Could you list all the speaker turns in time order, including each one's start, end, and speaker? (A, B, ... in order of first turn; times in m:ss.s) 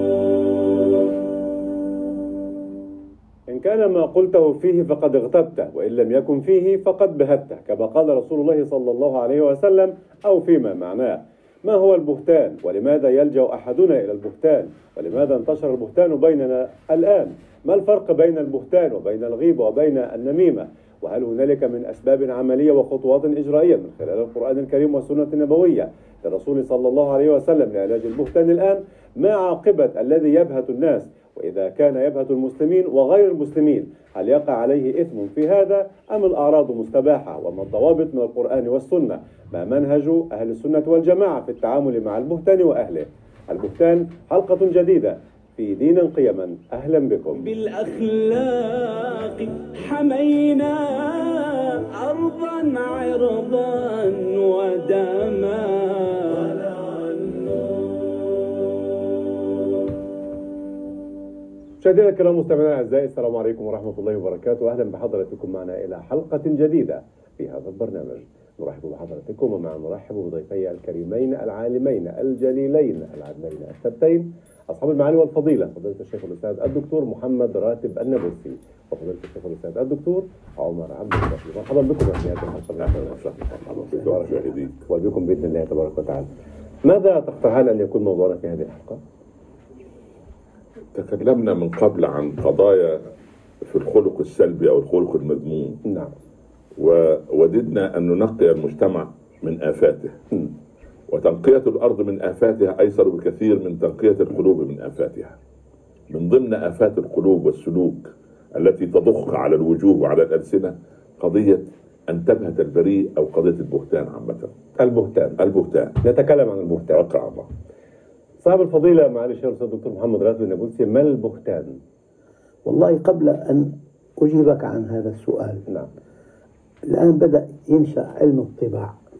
0:03.5-0:47.4 A
0:47.4-0:57.0 B
1:01.8-1:23.2 A
1:22.8-1:24.8 C
1:24.9-1:26.3 A
1:26.8-1:29.0 A
1:30.9-1:33.0 C
1:33.6-1:35.8 C
1:35.9-1:36.1 A
1:36.8-1:40.2 C
1:41.1-1:45.4 C
1:46.1-1:54.5 C
1:54.8-1:55.4 A
1:55.4-1:56.0 C
1:56.0-1:57.0 A
1:56.9-1:57.5 C
1:58.4-2:01.8 A
2:02.6-2:05.6 D
2:06.9-2:09.0 D